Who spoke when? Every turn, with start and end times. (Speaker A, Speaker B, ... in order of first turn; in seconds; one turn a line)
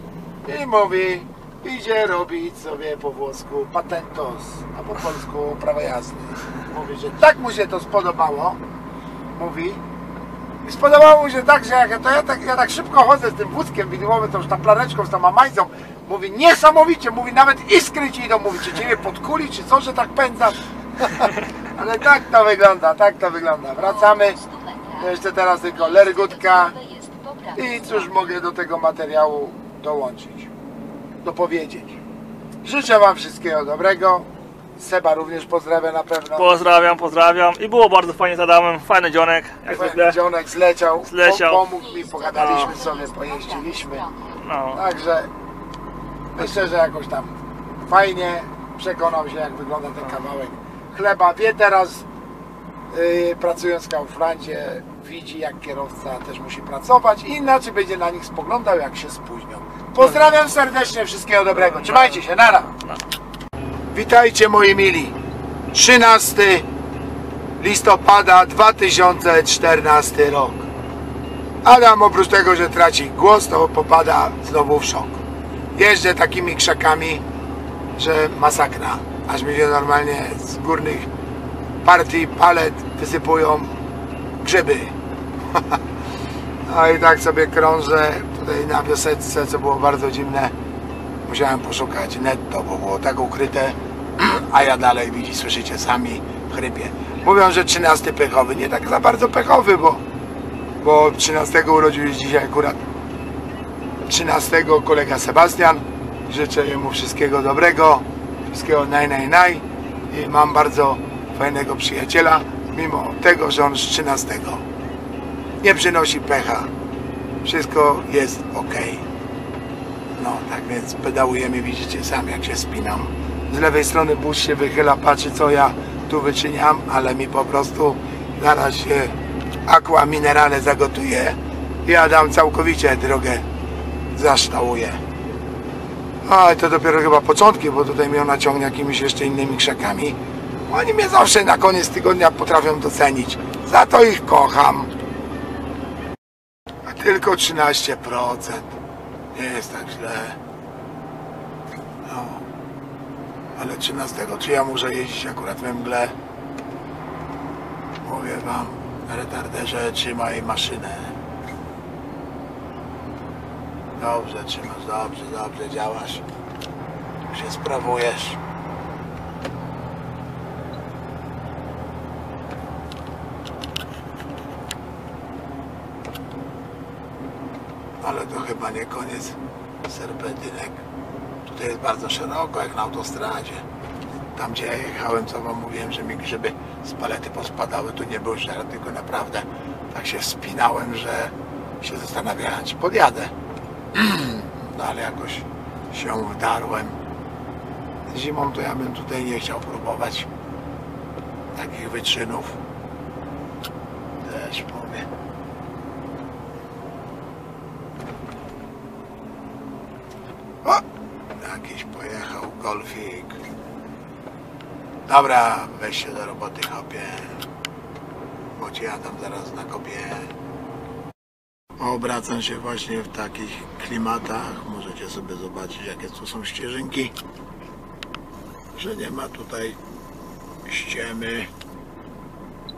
Speaker A: 0.5-8.6
Speaker A: 9.3-9.8
Speaker A: 10.6-24.4
Speaker B: 23.8-28.1
Speaker A: 25.0-26.8
Speaker A: 27.6-30.5
Speaker A: 31.2-32.0
Speaker A: 32.6-36.5
Speaker C: 36.4-40.2
Speaker A: 39.7-44.0
Speaker C: 41.0-41.7
Speaker B: 41.7-44.4
Speaker C: 42.4-42.7
Speaker C: 44.4-44.8
Speaker A: 44.7-45.3
Speaker A: 46.3-52.1
Speaker A: 52.9-62.7
Speaker C: 61.6-63.0
Speaker A: 63.9-65.2
Speaker A: 65.7-66.7
Speaker A: 67.6-70.7
Speaker A: 71.6-75.2
Speaker A: 75.8-77.2
Speaker A: 78.0-81.1
Speaker A: 81.8-83.8
Speaker A: 84.4-84.9
Speaker A: 86.7-90.5
Speaker A: 91.3-100.0
Speaker A: 100.8-102.8
Speaker A: 104.0-114.6
Speaker A: 115.6-116.7
Speaker A: 117.4-119.0
Speaker A: 120.2-133.4
Speaker A: 134.1-135.0
Speaker A: 136.2-144.9
Speaker A: 146.8-148.7
Speaker A: 149.3-150.4
Speaker A: 152.1-152.4
Speaker A: 153.6-156.2
Speaker A: 158.0-161.2
Speaker A: 164.0-166.2
Speaker A: 167.3-168.4
Speaker A: 178.0-180.8
Speaker A: 181.5-183.6
Speaker A: 184.3-193.3
Speaker A: 193.9-197.0
Speaker A: 198.1-200.3
Speaker A: 201.6-202.6
Speaker A: 204.2-205.1
Speaker A: 211.3-213.4
Speaker A: 215.1-217.4
Speaker A: 218.6-220.3
Speaker A: 221.8-227.2
Speaker A: 228.7-229.8
Speaker A: 230.7-231.5